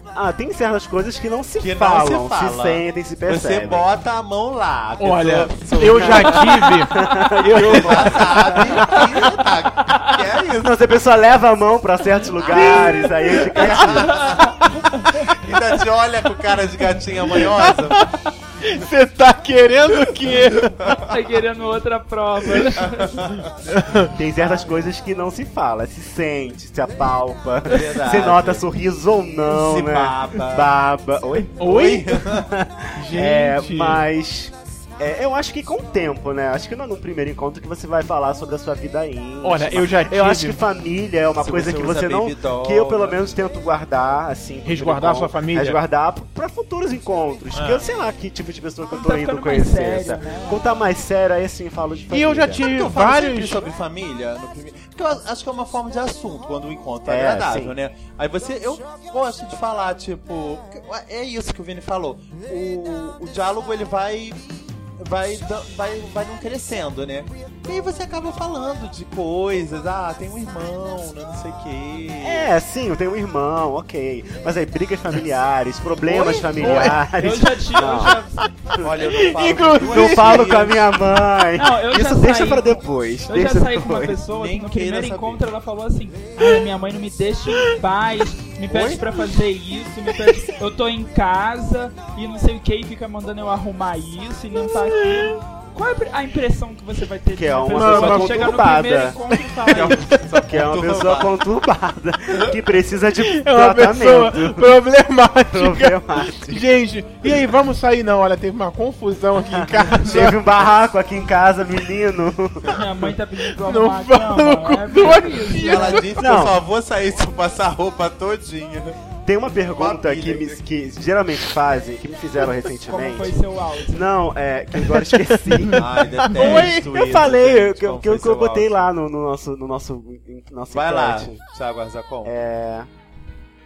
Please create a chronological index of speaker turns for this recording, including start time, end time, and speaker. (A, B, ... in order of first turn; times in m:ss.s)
0:00.1-0:03.9 A
0:01.6-0:10.8 B
0:05.0-0:09.3 C
0:05.7-0:09.0 A
0:09.9-0:10.1 D
0:10.5-0:14.4 A
0:12.4-0:18.0 B
0:12.5-0:14.0 C
0:14.1-0:15.2 D
0:17.4-0:20.9 C
0:21.0-0:23.4 D
0:22.8-0:23.5 B
0:23.7-0:24.1 C
0:24.1-0:31.7 A
0:27.6-0:28.7 B
0:29.5-0:30.7 B
0:31.6-0:32.3 C
0:31.6-0:32.5 B
0:32.3-0:52.6 A
0:32.9-0:34.0 C
0:39.4-0:40.6 C
0:41.4-0:43.3 B
0:44.6-0:45.8 C
0:47.5-0:47.8 C
0:48.9-0:50.7 D
0:52.1-0:53.6 C
0:52.6-1:04.4 B
0:57.0-0:57.8 A
1:05.0-1:12.5 B
1:12.2-1:18.2 A
1:16.0-1:16.9 B
1:16.6-1:17.4 C
1:16.8-1:18.5 D
1:18.7-1:20.5 C
1:18.8-1:21.1 B
1:19.8-1:24.2 A
1:21.5-1:40.1 D
1:24.3-1:25.4 B
1:28.7-1:29.2 B
1:34.6-1:35.3 C
1:37.3-1:44.8 A
1:37.7-1:38.6 C
1:39.7-1:41.4 B
1:43.2-1:50.4 C
1:45.5-1:46.7 A
1:49.5-1:52.8 A
1:52.7-1:56.1 D
1:53.6-1:56.2 C
1:55.6-1:59.0 B
1:56.2-1:56.6 A
1:59.2-2:03.4 A
1:59.8-2:00.6 B
2:02.8-2:04.1 D
2:03.9-2:11.4 A
2:05.6-2:06.9 C
2:05.7-2:08.7 B
2:10.7-2:12.3 B
2:12.2-2:12.9 A